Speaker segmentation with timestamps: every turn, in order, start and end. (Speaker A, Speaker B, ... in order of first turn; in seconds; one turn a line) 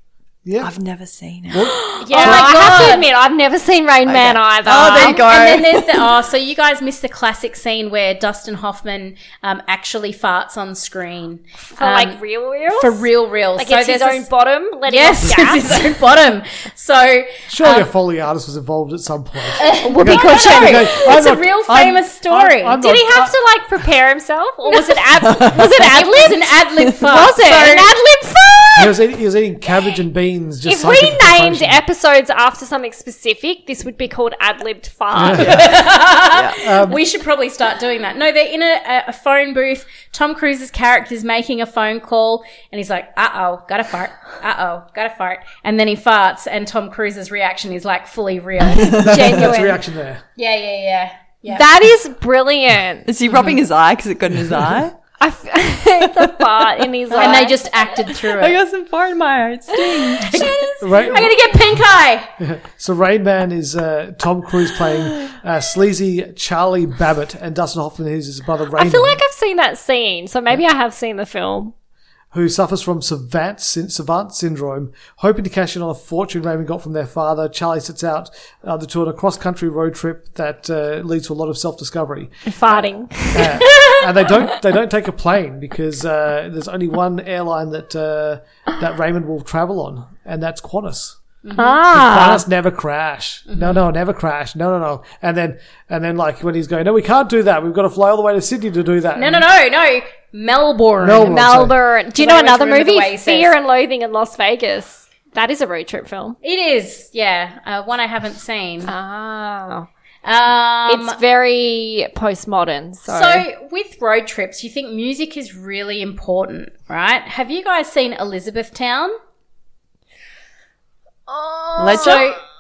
Speaker A: 0.5-0.7
Speaker B: 0.6-2.5
Speaker A: 1.5-2.5
Speaker C: 2.0-5.6
Speaker D: 2.1-3.1
Speaker B: 4.6-6.1
Speaker D: 4.8-12.2
Speaker C: 11.7-16.0
Speaker D: 12.8-14.3
Speaker D: 14.9-17.9
Speaker A: 17.5-23.3
Speaker D: 19.6-22.8
Speaker C: 19.7-21.2
Speaker C: 22.7-29.0
Speaker D: 24.7-27.9
Speaker A: 28.8-31.8
Speaker C: 30.6-35.7
Speaker A: 35.1-35.8
Speaker D: 35.2-49.5
Speaker B: 35.4-35.7
Speaker B: 36.2-36.6
Speaker A: 36.5-37.0
Speaker C: 48.7-49.8
Speaker A: 49.0-50.2
Speaker D: 50.4-51.6
Speaker C: 51.5-53.1
Speaker B: 53.1-55.0
Speaker C: 55.2-58.0
Speaker B: 56.2-57.5
Speaker D: 57.1-58.6
Speaker B: 58.1-60.5
Speaker D: 59.9-62.3
Speaker C: 60.2-61.2
Speaker A: 60.8-61.4
Speaker A: 62.4-69.2
Speaker C: 68.8-71.7
Speaker A: 72.3-91.2
Speaker C: 82.5-84.5
Speaker D: 91.4-91.8
Speaker C: 91.6-92.4
Speaker A: 91.9-99.5
Speaker D: 93.5-93.8
Speaker D: 99.2-101.6
Speaker A: 101.0-101.8
Speaker C: 101.2-106.4
Speaker D: 102.2-103.5
Speaker D: 106.4-108.9
Speaker C: 108.8-109.9
Speaker D: 110.2-111.2
Speaker C: 110.9-113.5
Speaker D: 113.1-119.2
Speaker C: 121.3-122.3
Speaker B: 121.8-122.3
Speaker D: 121.8-122.4